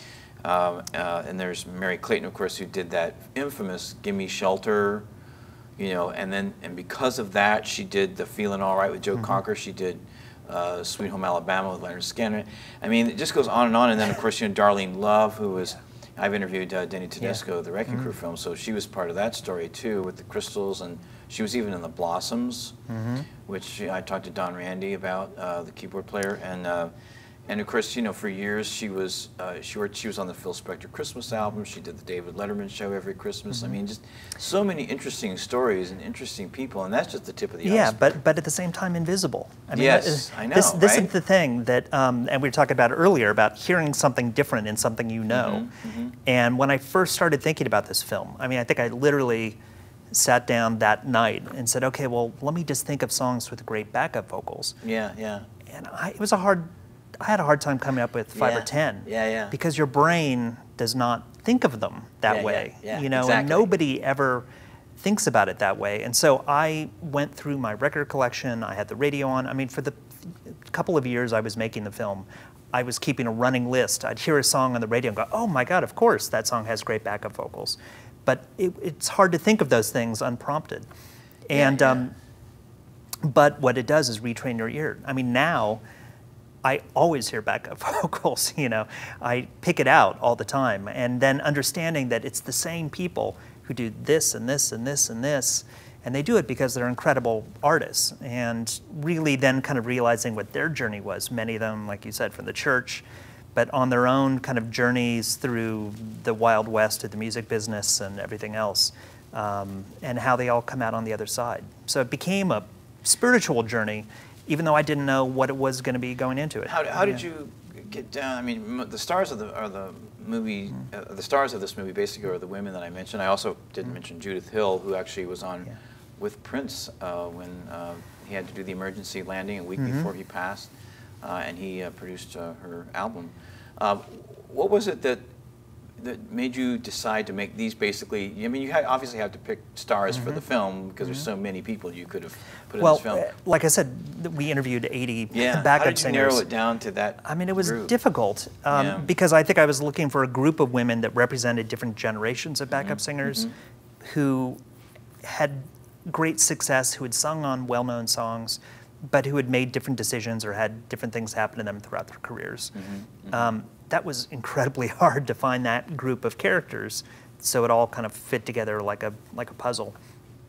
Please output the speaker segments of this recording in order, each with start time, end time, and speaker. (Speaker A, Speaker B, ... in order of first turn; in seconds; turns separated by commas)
Speaker A: 0.4-5.0, Speaker A: 5.8-22.8, Speaker B: 9.1-9.4, Speaker B: 17.2-18.1, Speaker B: 22.9-23.3, Speaker A: 23.4-26.9, Speaker A: 27.5-38.0, Speaker B: 33.5-33.8, Speaker B: 37.6-45.6, Speaker A: 39.7-41.1, Speaker A: 45.3-46.1, Speaker B: 46.2-49.6, Speaker B: 50.1-54.8, Speaker A: 54.8-55.5, Speaker B: 55.7-64.5, Speaker A: 58.3-59.5, Speaker A: 62.3-63.7, Speaker B: 65.0-80.9, Speaker B: 81.5-82.1, Speaker A: 81.5-82.0, Speaker B: 83.2-85.8, Speaker B: 86.6-117.2, Speaker A: 116.7-130.7, Speaker B: 129.8-130.1, Speaker A: 131.2-135.3, Speaker A: 136.0-143.3, Speaker B: 140.1-140.4, Speaker B: 141.0-141.3, Speaker B: 142.8-146.4, Speaker A: 145.3-147.9, Speaker B: 147.2-153.5, Speaker A: 148.7-149.1, Speaker A: 152.7-153.5, Speaker B: 154.0-154.6, Speaker B: 155.2-162.7, Speaker A: 162.7-163.5, Speaker B: 163.3-170.0